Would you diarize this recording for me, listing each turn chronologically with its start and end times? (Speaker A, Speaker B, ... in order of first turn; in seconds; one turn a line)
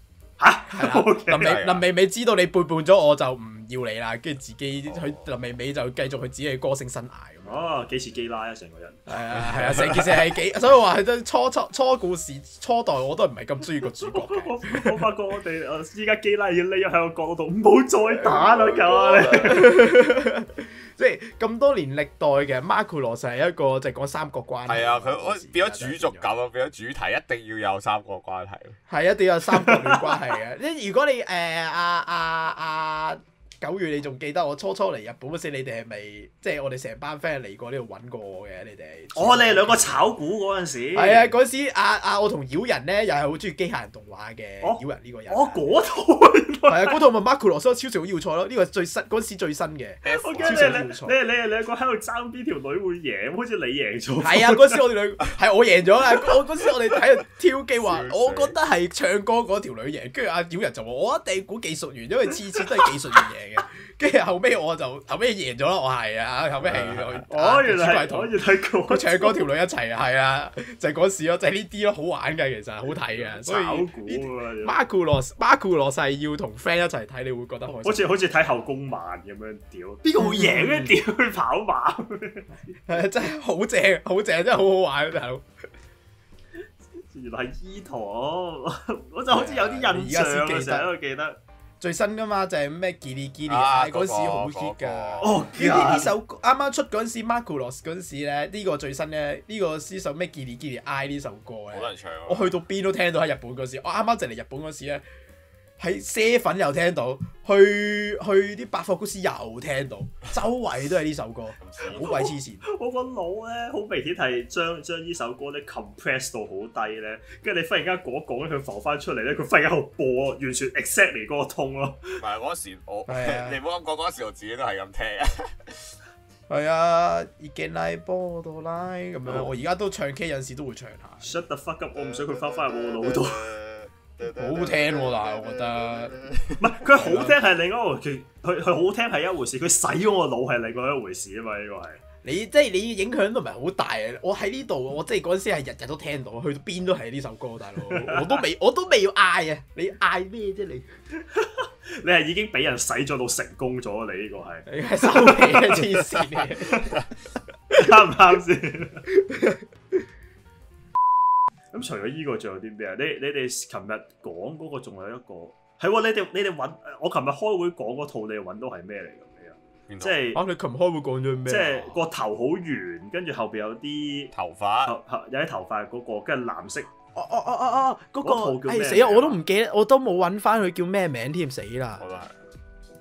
Speaker A: 0.4-1.6
Speaker B: 0.7-7.7
Speaker C: 1.4-1.9
Speaker C: 4.9-5.2
Speaker A: 7.5-9.8
Speaker B: 9.1-14.9
Speaker A: 14.1-19.7
Speaker B: 18.2-26.3
Speaker C: 24.6-28.8
Speaker B: 28.9-40.1
Speaker A: 29.5-30.2
Speaker A: 39.1-41.3
Speaker B: 40.9-45.6
Speaker A: 44.6-47.0
Speaker B: 46.7-51.1
Speaker C: 50.0-50.9
Speaker A: 50.1-54.8
Speaker B: 54.2-68.3
Speaker C: 57.8-58.5
Speaker C: 66.6-67.2
Speaker A: 67.3-69.5
Speaker B: 68.9-78.1
Speaker A: 73.0-74.8
Speaker A: 77.7-82.8
Speaker B: 80.2-80.9
Speaker B: 82.9-85.4
Speaker A: 87.0-91.4
Speaker B: 89.3-90.9
Speaker B: 91.8-105.0
Speaker C: 93.5-95.4
Speaker A: 95.2-96.1
Speaker C: 101.7-102.5
Speaker B: 105.8-112.6
Speaker C: 111.6-112.0
Speaker A: 111.9-122.2
Speaker C: 122.2-125.9
Speaker B: 123.1-123.6
Speaker B: 126.5-131.3
Speaker A: 131.2-133.5
Speaker C: 131.9-136.7
Speaker B: 134.3-136.2
Speaker A: 136.6-142.0
Speaker B: 136.9-137.3
Speaker B: 142.2-150.9
Speaker A: 147.8-148.4
Speaker A: 151.3-156.9
Speaker B: 154.7-156.9
Speaker A: 157.7-159.0
Speaker B: 159.1-159.7
Speaker A: 161.7-170.4
Speaker C: 169.9-170.3
Speaker B: 170.3-171.9
Speaker A: 171.5-174.3
Speaker C: 174.3-175.0
Speaker A: 174.8-176.9
Speaker B: 177.1-182.0
Speaker A: 178.2-179.4
Speaker C: 182.0-182.3